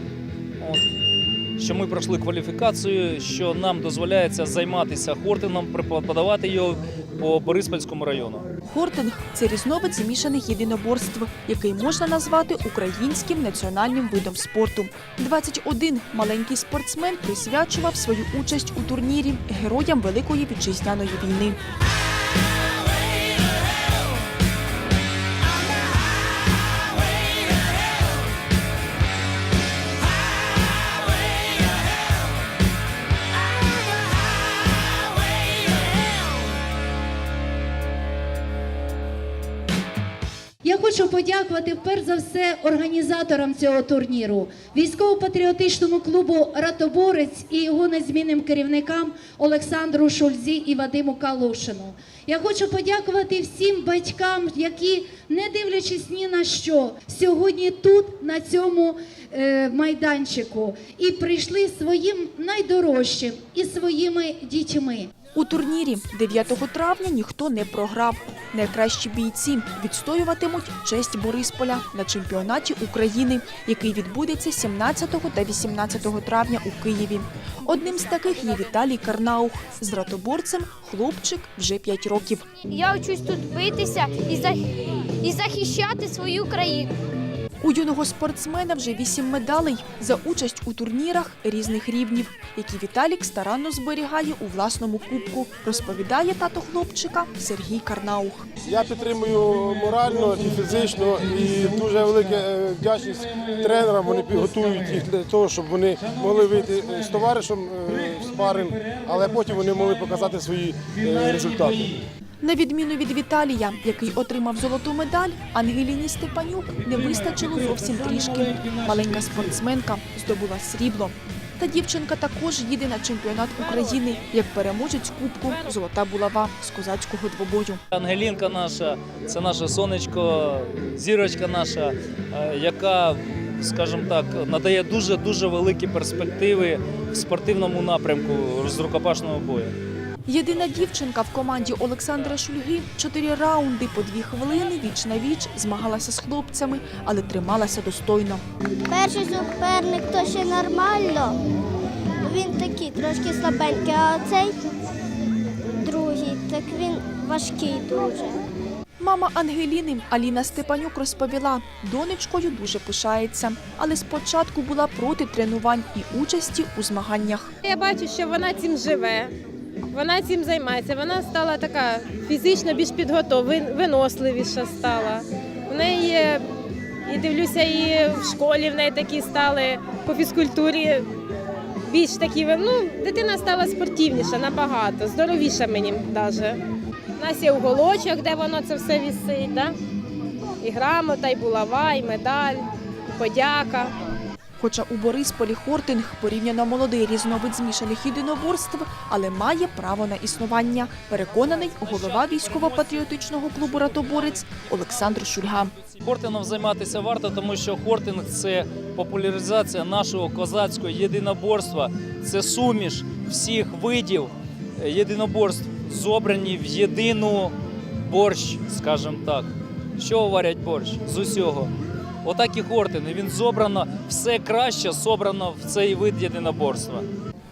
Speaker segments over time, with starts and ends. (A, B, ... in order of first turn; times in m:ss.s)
0:00.6-0:00.8 A
0:01.6-0:08.4 A
0:08.6-0:21.6 B
0:40.6-1:05.1 C
1:05.3-1:22.5 B
1:18.3-1:18.6 D
1:22.7-1:26.9 E
1:27.6-1:38.5 B
1:38.6-1:52.0 F
1:52.4-2:07.8 B
2:03.6-2:04.3 D
2:05.5-2:05.7 D
2:07.9-2:19.8 A
2:20.3-2:28.4 B
2:28.9-2:31.4 G
2:32.2-2:34.7 G
2:35.8-2:38.4 G
2:39.0-2:47.5 B
2:47.6-2:49.3 D
2:49.9-2:56.4 D
2:57.0-3:01.1 D
3:01.9-3:06.6 D
3:07.2-3:09.7 D
3:10.6-3:13.9 D
3:14.6-3:25.7 B
3:21.3-3:41.7 A
3:42.2-3:47.1 A